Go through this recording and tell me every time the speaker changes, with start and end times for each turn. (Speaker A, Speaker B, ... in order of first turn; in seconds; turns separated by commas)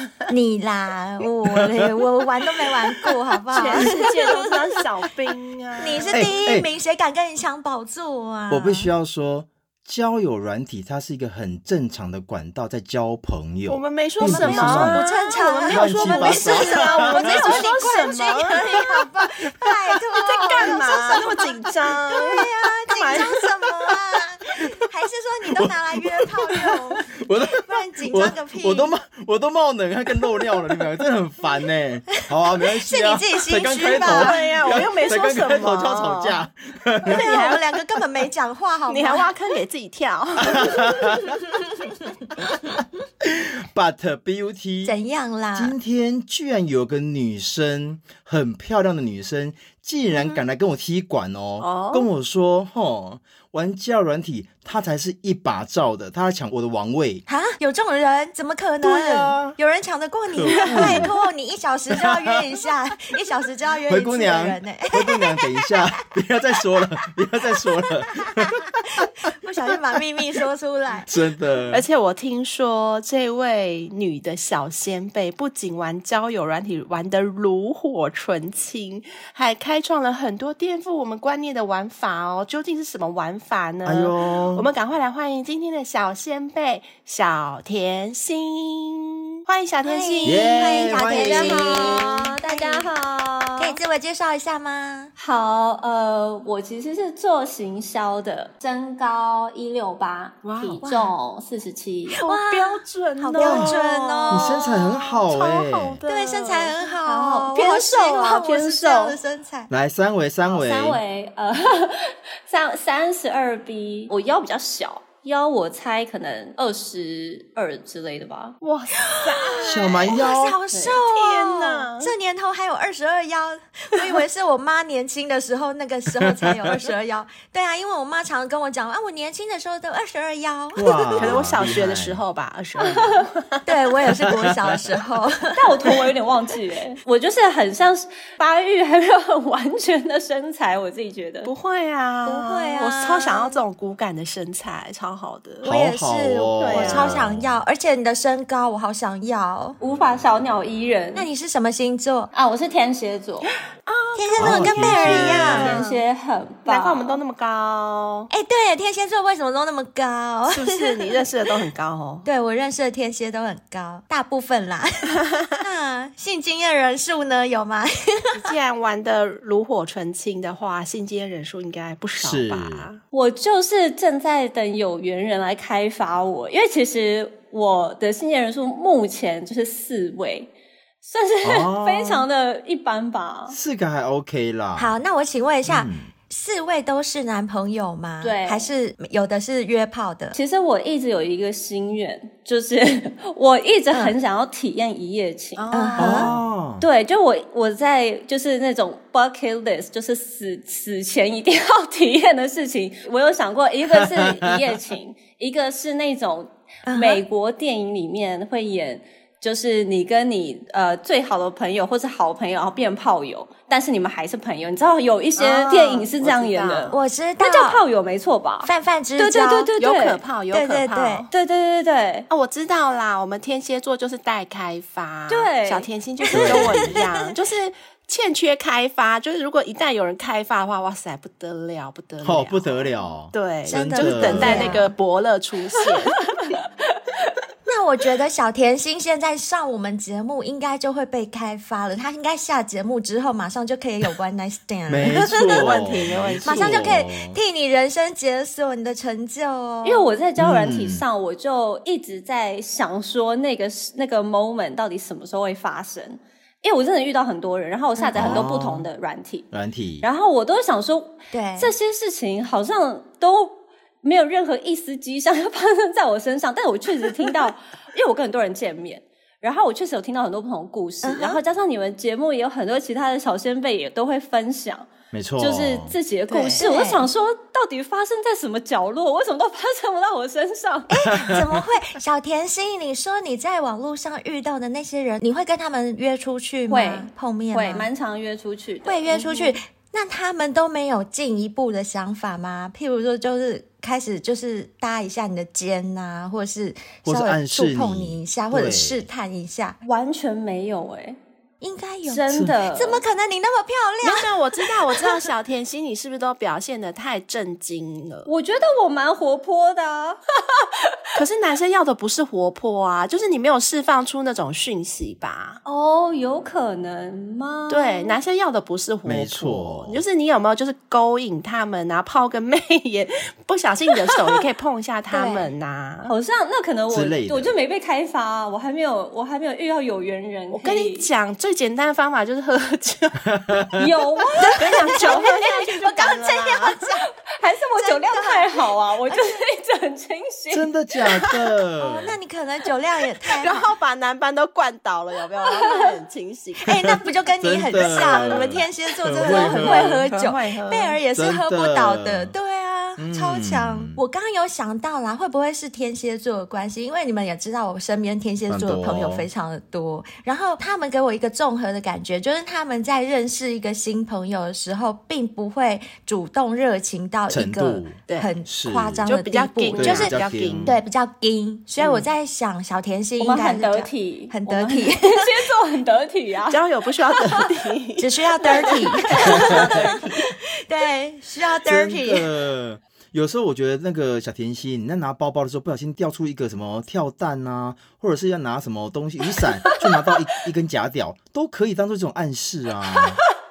Speaker A: 0.3-4.7, Speaker B: 1.5-1.9, Speaker C: 3.5-6.4, Speaker A: 5.8-8.9, Speaker B: 6.1-6.7, Speaker B: 8.5-15.1, Speaker C: 13.7-19.0, Speaker A: 14.2-28.9, Speaker B: 15.7-17.7, Speaker C: 20.2-23.5, Speaker B: 24.6-24.8, Speaker B: 25.5-37.2, Speaker A: 32.8-34.5, Speaker C: 34.0-36.5, Speaker C: 37.1-37.8, Speaker A: 37.1-39.3, Speaker C: 38.9-40.9, Speaker B: 40.4-41.4, Speaker B: 42.4-42.7, Speaker B: 43.2-44.9, Speaker A: 44.8-45.8, Speaker B: 45.5-57.2, Speaker C: 51.6-52.1, Speaker A: 57.3-65.8, Speaker B: 58.8-59.6, Speaker B: 60.4-61.1, Speaker C: 60.7-61.1, Speaker B: 62.0-62.4, Speaker B: 63.9-69.1, Speaker A: 68.3-71.1, Speaker B: 71.1-71.8, Speaker C: 71.7-91.3, Speaker B: 83.9-84.7, Speaker A: 89.8-92.9, Speaker B: 90.2-91.9, Speaker D: 91.1-93.8, Speaker A: 93.6-95.1, Speaker D: 95.2-102.2, Speaker C: 100.4-101.1, Speaker A: 102.1-104.6, Speaker C: 102.2-106.8, Speaker B: 103.4-106.0, Speaker A: 106.1-109.7, Speaker D: 107.0-109.2, Speaker B: 109.7-111.0, Speaker D: 110.4-118.6, Speaker C: 118.6-120.2, Speaker A: 119.0-131.4, Speaker B: 119.6-120.6, Speaker C: 121.0-122.1, Speaker B: 126.2-126.6, Speaker B: 130.8-132.2, Speaker C: 131.2-134.0, Speaker D: 132.8-133.2, Speaker A: 133.7-135.9, Speaker B: 134.1-134.9, Speaker D: 135.6-141.5, Speaker C: 141.4-145.6, Speaker A: 142.2-143.6, Speaker A: 145.6-149.8, Speaker B: 145.7-147.6, Speaker C: 146.6-147.2, Speaker D: 149.8-151.3, Speaker A: 151.1-152.3, Speaker D: 152.3-153.5, Speaker C: 153.9-156.0, Speaker A: 154.2-155.8, Speaker B: 154.4-155.7, Speaker D: 155.5-157.2, Speaker C: 156.7-158.3, Speaker A: 158.3-161.1, Speaker C: 160.5-162.3, Speaker A: 162.2-168.5, Speaker C: 168.3-173.0, Speaker B: 172.2-172.9, Speaker D: 173.1-180.5, Speaker D: 181.0-183.6, Speaker B: 181.4-182.3, Speaker B: 183.5-184.9, Speaker A: 184.8-190.4, Speaker B: 185.7-186.1, Speaker D: 188.2-188.7, Speaker D: 190.3-195.7, Speaker C: 195.6-196.4, Speaker A: 195.7-196.3, Speaker B: 196.0-196.9, Speaker D: 196.8-220.2, Speaker B: 203.9-204.3, Speaker A: 206.9-207.2, Speaker C: 215.4-217.0, Speaker A: 216.9-217.8, Speaker A: 218.6-219.7, Speaker C: 219.8-221.3, Speaker A: 220.5-221.3, Speaker D: 221.3-222.3, Speaker C: 222.3-236.6, Speaker D: 225.3-225.9, Speaker A: 226.3-227.1, Speaker B: 226.3-227.0, Speaker B: 232.2-234.8, Speaker A: 233.7-234.9, Speaker D: 236.4-237.3, Speaker A: 237.7-245.7, Speaker B: 244.9-247.4, Speaker C: 245.1-247.0, Speaker A: 246.4-250.1, Speaker D: 249.8-259.5, Speaker B: 250.4-251.1, Speaker A: 258.0-258.4, Speaker B: 258.2-258.9, Speaker B: 259.5-260.1, Speaker D: 260.0-280.9, Speaker A: 261.3-261.7, Speaker A: 271.0-271.4, Speaker B: 275.1-275.9, Speaker C: 276.3-276.6, Speaker A: 276.6-277.0, Speaker A: 280.9-287.9, Speaker B: 281.1-281.6, Speaker D: 286.7-289.5, Speaker A: 288.9-299.8, Speaker B: 297.1-299.0, Speaker D: 299.8-301.2, Speaker A: 301.6-304.4, Speaker D: 302.1-303.0, Speaker B: 302.3-302.5, Speaker C: 304.0-308.3, Speaker D: 308.3-310.2, Speaker C: 311.1-315.6, Speaker D: 315.6-318.2, Speaker C: 317.7-326.1, Speaker B: 319.1-320.0, Speaker A: 325.1-325.5, Speaker D: 326.1-331.1, Speaker B: 326.9-327.5, Speaker C: 330.5-333.4, Speaker B: 333.3-333.9, Speaker D: 333.8-335.4, Speaker A: 334.4-337.1, Speaker C: 334.6-336.8, Speaker D: 337.3-340.7, Speaker A: 337.8-339.4, Speaker B: 340.5-342.2, Speaker C: 341.1-341.4, Speaker A: 341.8-343.7, Speaker C: 343.3-346.9, Speaker A: 346.7-375.4, Speaker B: 347.4-350.1, Speaker C: 348.1-348.5, Speaker C: 349.2-351.0, Speaker B: 351.1-352.3, Speaker B: 353.0-354.0, Speaker B: 358.5-359.3, Speaker B: 367.3-369.1, Speaker C: 368.1-368.3, Speaker C: 369.1-370.8, Speaker B: 369.8-370.8, Speaker C: 371.8-372.1, Speaker D: 373.2-377.5, Speaker C: 376.5-379.9, Speaker A: 378.0-382.3, Speaker D: 378.4-380.2, Speaker B: 381.7-393.2